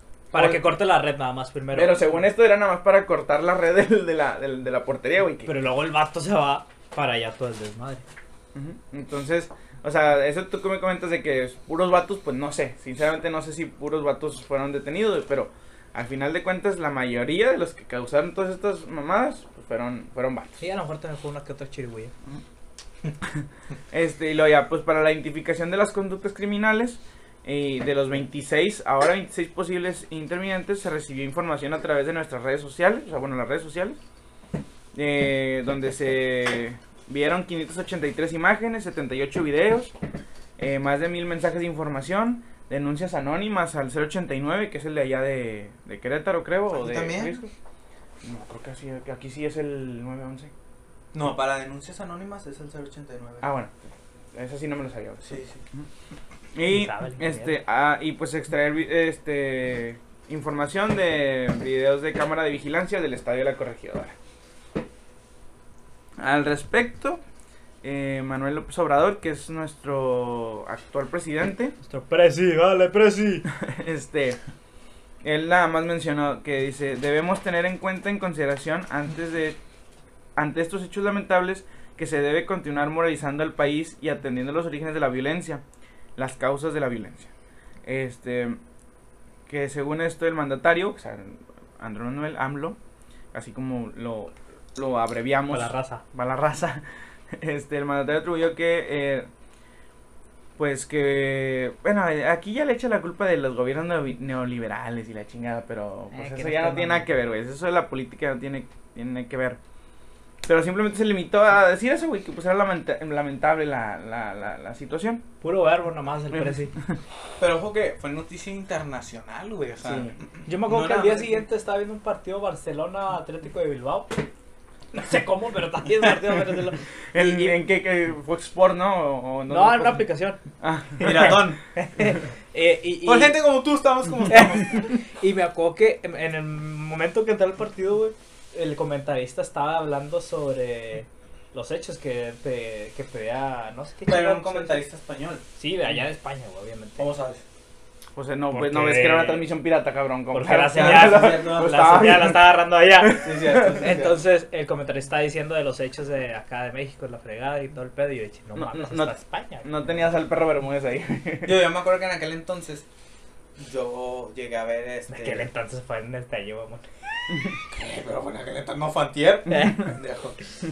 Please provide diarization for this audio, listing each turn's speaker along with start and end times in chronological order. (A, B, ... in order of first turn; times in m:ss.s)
0:00.3-0:02.2 A
0:00.3-0:00.6 B
0:01.7-0:05.5 B
0:05.4-0:08.0 A
0:08.6-0:20.6 B
0:20.6-0:22.1 A
0:23.2-0:34.0 B
0:34.9-0:39.9 B
0:40.6-0:47.5 B
0:46.7-0:47.4 C
0:48.2-0:50.5 B
0:51.1-0:53.5 C
0:53.4-0:55.9 B
0:55.2-0:55.6 C
0:56.5-1:04.1 B
0:56.7-0:57.6 A
1:06.2-1:07.2 B
1:07.8-1:11.8 B
1:11.8-1:13.5 A
1:13.5-1:14.4 B
1:15.2-1:19.6 B
1:20.4-1:25.6 B
1:26.2-1:27.3 B
1:27.8-1:28.6 B
1:29.5-1:32.8 B
1:33.3-1:39.3 B
1:35.5-1:36.0 A
1:40.6-1:49.6 B
1:46.1-1:47.1 A
1:50.4-1:55.2 B
1:55.4-1:56.8 A
1:57.4-2:01.4 C
1:59.8-2:00.2 B
2:00.5-2:04.2 A
2:04.9-2:07.6 A
2:07.1-2:10.1 B
2:09.5-2:10.4 A
2:10.6-2:11.5 B
2:11.0-2:13.4 A
2:11.0-2:11.6 C
2:13.0-2:14.8 C
2:14.3-2:24.8 A
2:24.1-2:25.4 C
2:25.6-2:27.1 A
2:27.0-2:27.4 C
2:28.2-2:33.8 B
2:28.5-2:29.5 A
2:30.3-2:39.9 A
2:30.8-2:31.8 C
2:33.1-2:34.2 C
2:38.6-2:41.7 B
2:41.4-2:42.9 C
2:43.6-2:45.5 C
2:45.1-2:46.9 A
2:47.7-2:50.4 C
2:49.5-2:49.8 A